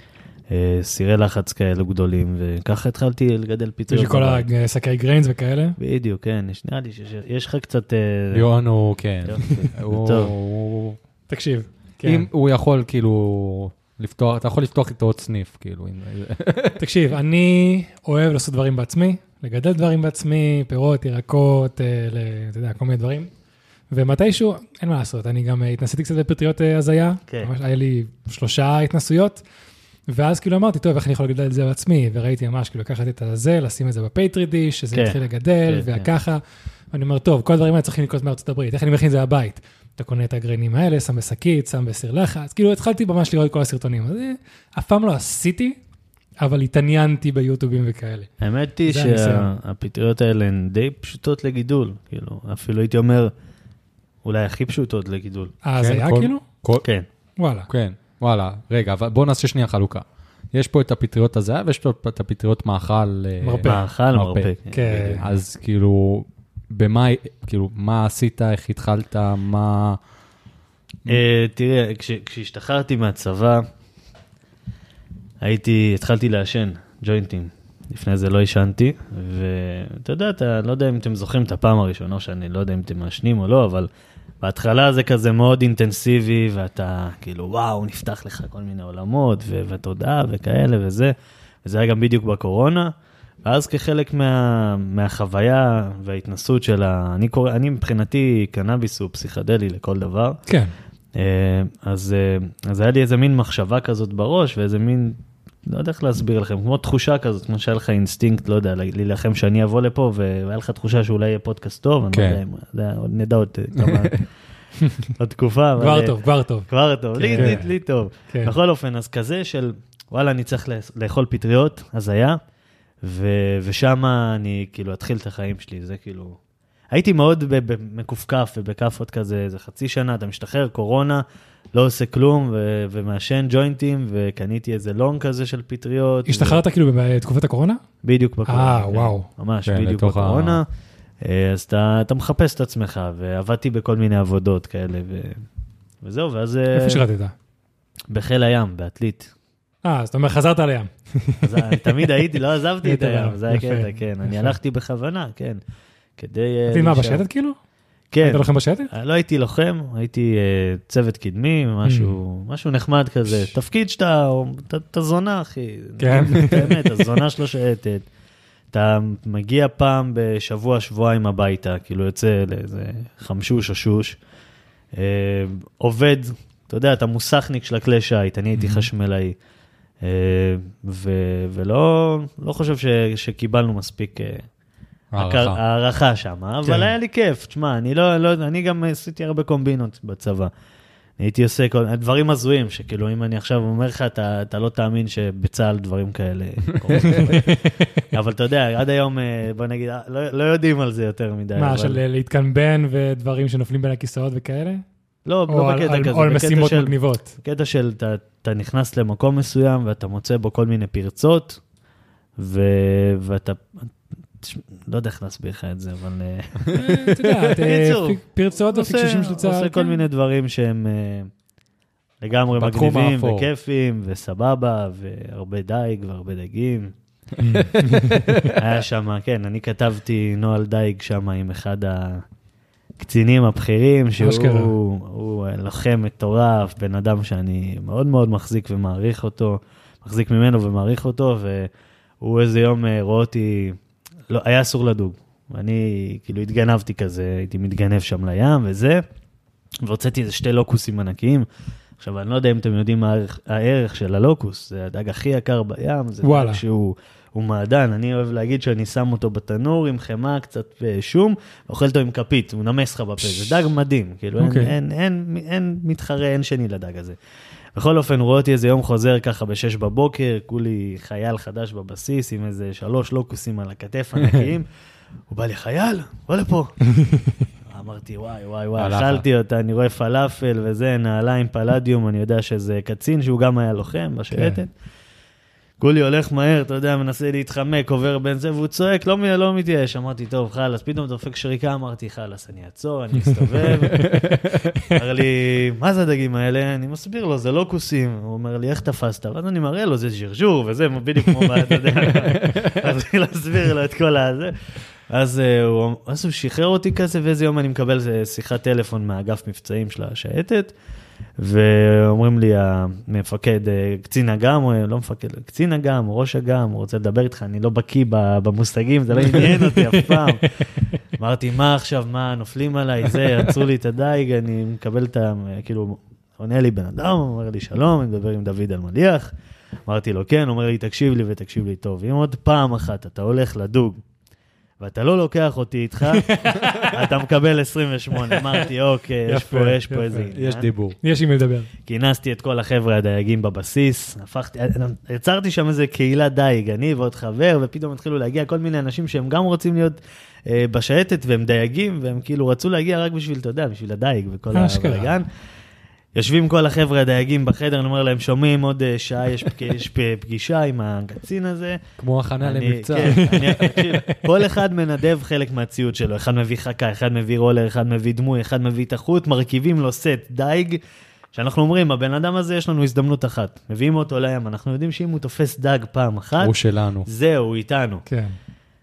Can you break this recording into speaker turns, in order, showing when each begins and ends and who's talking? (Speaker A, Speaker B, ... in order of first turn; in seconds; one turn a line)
Speaker A: 0.5-4.5
Speaker B: 3.9-5.8
Speaker A: 5.8-8.5
Speaker C: 8.3-11.0
Speaker A: 9.2-10.3
Speaker B: 11.3-12.3
Speaker C: 12.0-16.8
Speaker B: 16.8-23.3
Speaker B: 23.9-29.4
Speaker B: 30.1-45.8
Speaker A: 34.9-36.1
Speaker B: 46.4-48.3
Speaker A: 48.4-53.3
Speaker B: 48.9-49.5
Speaker A: 54.2-55.5
Speaker B: 55.6-56.4
Speaker C: 55.8-56.9
Speaker B: 57.4-57.7
Speaker C: 57.7-70.0
Speaker B: 63.4-63.8
Speaker A: 63.6-65.0
Speaker B: 64.7-65.2
Speaker A: 71.1-73.6
Speaker A: 75.4-83.9
Speaker A: 84.4-91.1
Speaker A: 91.6-92.9
Speaker A: 93.4-100.4
Speaker B: 100.5-100.7
Speaker A: 101.2-114.2
Speaker C: 112.1-112.4
Speaker C: 113.8-114.2
Speaker A: 115.2-122.4
Speaker B: 115.8-117.7
Speaker C: 117.3-117.6
Speaker A: 123.0-126.4
Speaker A: 126.9-136.6
Speaker B: 136.3-137.8
Speaker A: 138.0-140.7
Speaker B: 138.5-139.3
Speaker C: 139.7-140.6
Speaker A: 141.2-145.4
Speaker A: 146.0-147.0
Speaker B: 146.7-147.3
Speaker A: 148.1-149.3
Speaker B: 149.8-152.0
Speaker A: 151.4-155.6
Speaker B: 152.8-154.6
Speaker A: 156.2-157.2
Speaker B: 156.7-157.6
Speaker A: 158.1-168.0
Speaker B: 158.2-158.9
Speaker B: 161.8-162.1
Speaker B: 166.0-166.8
Speaker A: 168.7-174.2
Speaker A: 174.9-179.3
Speaker B: 178.6-178.8
Speaker A: 180.0-184.4
Speaker C: 185.1-185.6
Speaker A: 185.2-190.5
Speaker A: 191.2-197.6
Speaker C: 196.8-197.3
Speaker B: 197.0-197.9
Speaker A: 198.1-202.0
Speaker B: 201.6-204.8
Speaker A: 205.2-211.6
Speaker B: 205.5-207.3
Speaker A: 212.4-221.3
Speaker B: 216.7-220.0
Speaker A: 222.2-226.9
Speaker C: 222.6-223.5
Speaker B: 227.4-228.5
Speaker C: 227.4-228.7
Speaker A: 228.5-232.2
Speaker A: 233.0-241.7
Speaker B: 234.2-234.7
Speaker A: 242.2-243.8
Speaker A: 244.3-249.0
Speaker A: 249.8-251.5
Speaker A: 252.0-267.2
Speaker B: 256.2-256.6
Speaker B: 264.4-264.7
Speaker A: 267.8-274.6
Speaker A: 275.3-276.8
Speaker B: 276.9-277.3
Speaker A: 277.6-284.7
Speaker C: 278.8-279.2
Speaker B: 284.3-284.6
Speaker A: 285.8-294.2
Speaker C: 293.7-294.7
Speaker A: 294.8-304.5
Speaker C: 302.0-302.7
Speaker A: 305.1-310.7
Speaker A: 311.4-329.3
Speaker B: 319.3-320.0
Speaker A: 329.9-334.0
Speaker A: 334.8-340.7
Speaker B: 336.1-336.9
Speaker C: 336.6-336.8
Speaker B: 339.3-340.3
Speaker C: 340.3-341.0
Speaker B: 341.0-341.7
Speaker A: 341.9-355.3
Speaker B: 354.5-355.1
Speaker A: 356.1-361.8
Speaker C: 362.0-363.5
Speaker A: 362.4-370.8
Speaker B: 363.1-364.2
Speaker A: 371.3-376.5
Speaker C: 376.4-377.1
Speaker A: 377.1-378.0
Speaker B: 378.1-378.3